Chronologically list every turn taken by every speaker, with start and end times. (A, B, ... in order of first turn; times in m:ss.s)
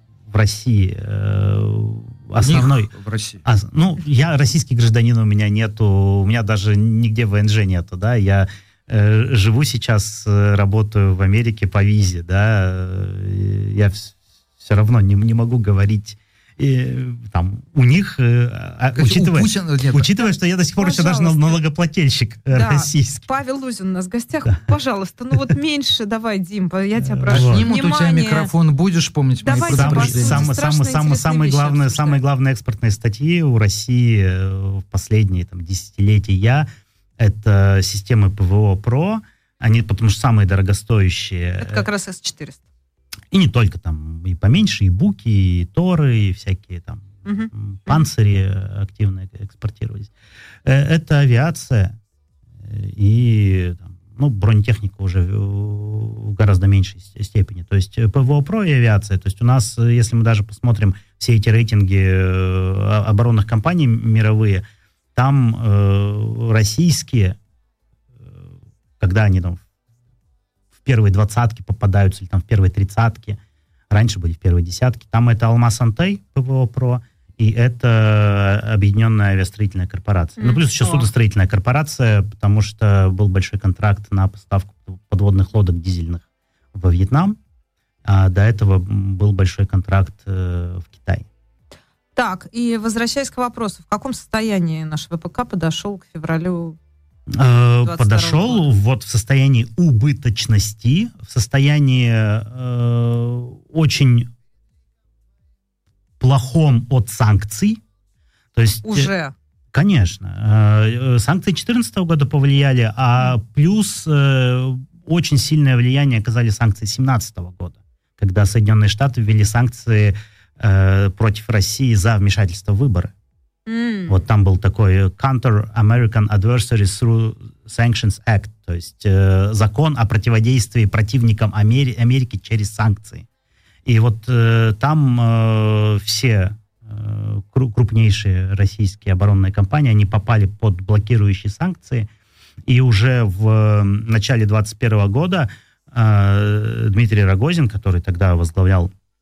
0:00.3-0:02.9 A
0:02.3-0:03.4 B
0:03.4-0:23.2 A
0:18.9-0:20.2 B
0:20.8-0:21.6 C
0:22.5-0:28.5 C
0:27.0-0:27.7 A
0:27.3-0:30.5 B
0:29.4-0:32.2 C
0:29.6-0:36.7 A
0:37.2-0:41.8 A
0:41.6-0:42.6 C
0:43.3-0:50.1 A
0:47.2-0:48.1 C
0:50.6-0:51.9 A
0:52.6-1:07.4 A
1:09.0-1:09.6 A
1:10.8-1:13.4 A
1:13.9-1:27.4 A
1:20.4-1:21.1 C
1:28.0-1:31.2 A
1:32.2-1:36.8 C
1:37.3-1:44.3 A
1:37.8-1:38.7 C
1:46.2-1:47.8 A
1:48.5-1:49.1 A
1:48.8-1:49.3 C
1:49.7-2:03.1 A
2:03.7-2:04.2 C
2:04.1-2:13.2 A
2:13.8-2:22.1 A
2:22.6-2:28.9 A